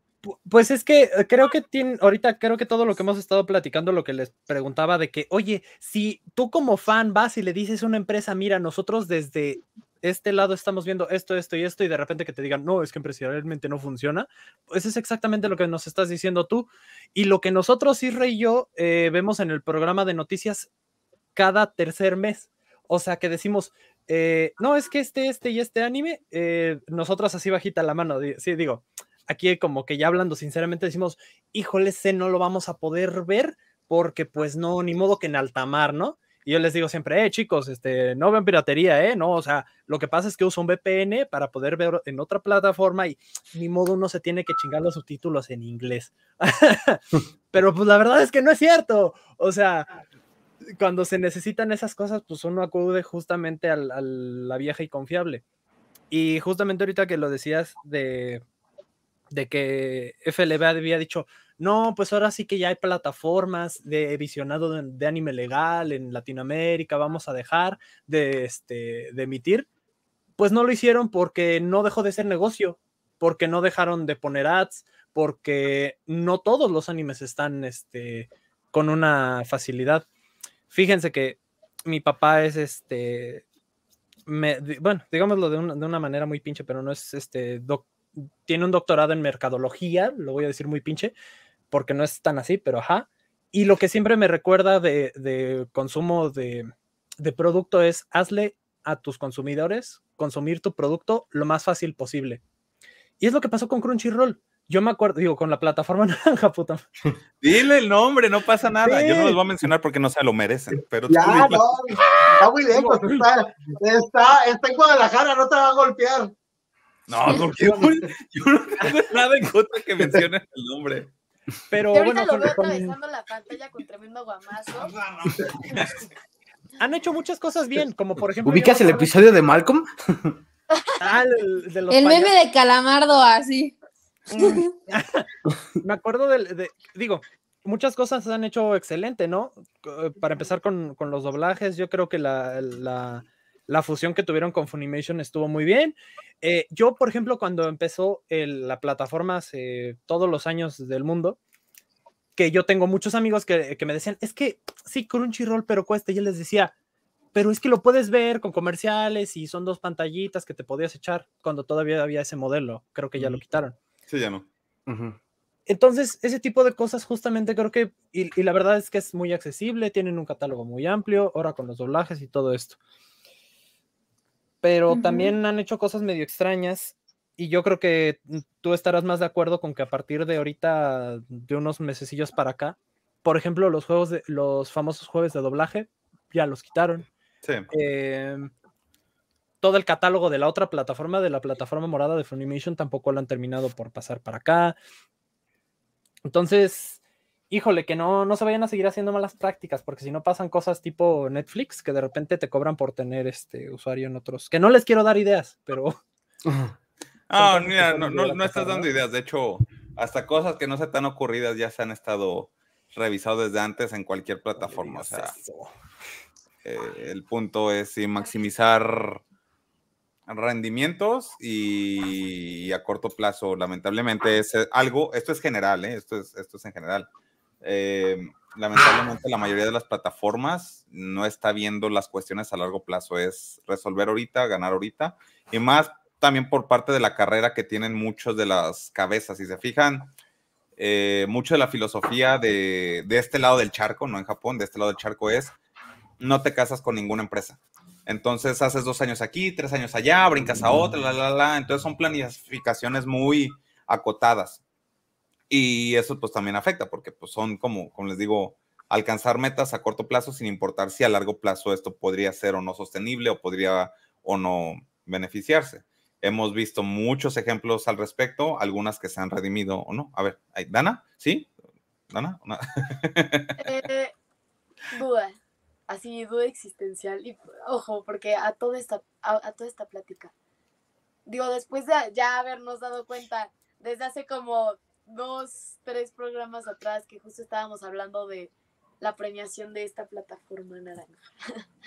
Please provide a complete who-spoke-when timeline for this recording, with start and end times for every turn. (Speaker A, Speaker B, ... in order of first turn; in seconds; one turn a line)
Speaker A: 0.2-20.7
Speaker A: 21.4-49.9
Speaker A: 50.7-55.4
Speaker A: 56.1-58.4
Speaker A: 59.3-69.7
Speaker A: 70.4-80.1
Speaker A: 80.7-83.4
Speaker A: 84.3-91.1
Speaker A: 91.7-102.4
Speaker A: 103.2-106.8
Speaker B: 107.4-111.8
Speaker A: 108.8-109.4
Speaker C: 111.1-116.3
Speaker A: 112.0-113.2
Speaker B: 117.1-121.1
Speaker A: 117.5-117.9
Speaker A: 121.7-123.0
Speaker D: 121.9-124.9
Speaker C: 124.9-125.6
Speaker A: 126.8-129.1
Speaker E: 128.4-130.4
Speaker D: 130.7-131.0
Speaker A: 131.0-132.3
Speaker F: 131.9-133.8
Speaker F: 134.3-134.7
Speaker A: 134.3-135.3
Speaker A: 135.8-151.4
Speaker A: 152.4-156.7
Speaker A: 157.3-163.8
Speaker B: 164.1-164.5
Speaker E: 164.9-165.2
Speaker A: 165.7-172.8
Speaker A: 174.6-187.1
Speaker F: 174.9-175.3
Speaker A: 187.7-188.5
Speaker A: 189.6-194.8
Speaker A: 196.3-197.0
Speaker A: 197.5-206.0
Speaker E: 206.5-206.7
Speaker B: 207.3-215.3
Speaker A: 207.4-208.9
Speaker A: 214.6-215.7
Speaker B: 216.6-219.2
Speaker B: 220.3-227.1
Speaker B: 227.6-240.1
Speaker B: 240.8-245.6
Speaker B: 246.2-254.6
Speaker B: 255.5-271.5
Speaker B: 272.1-273.7
Speaker D: 273.6-274.1
Speaker D: 274.9-280.3
Speaker D: 281.3-291.6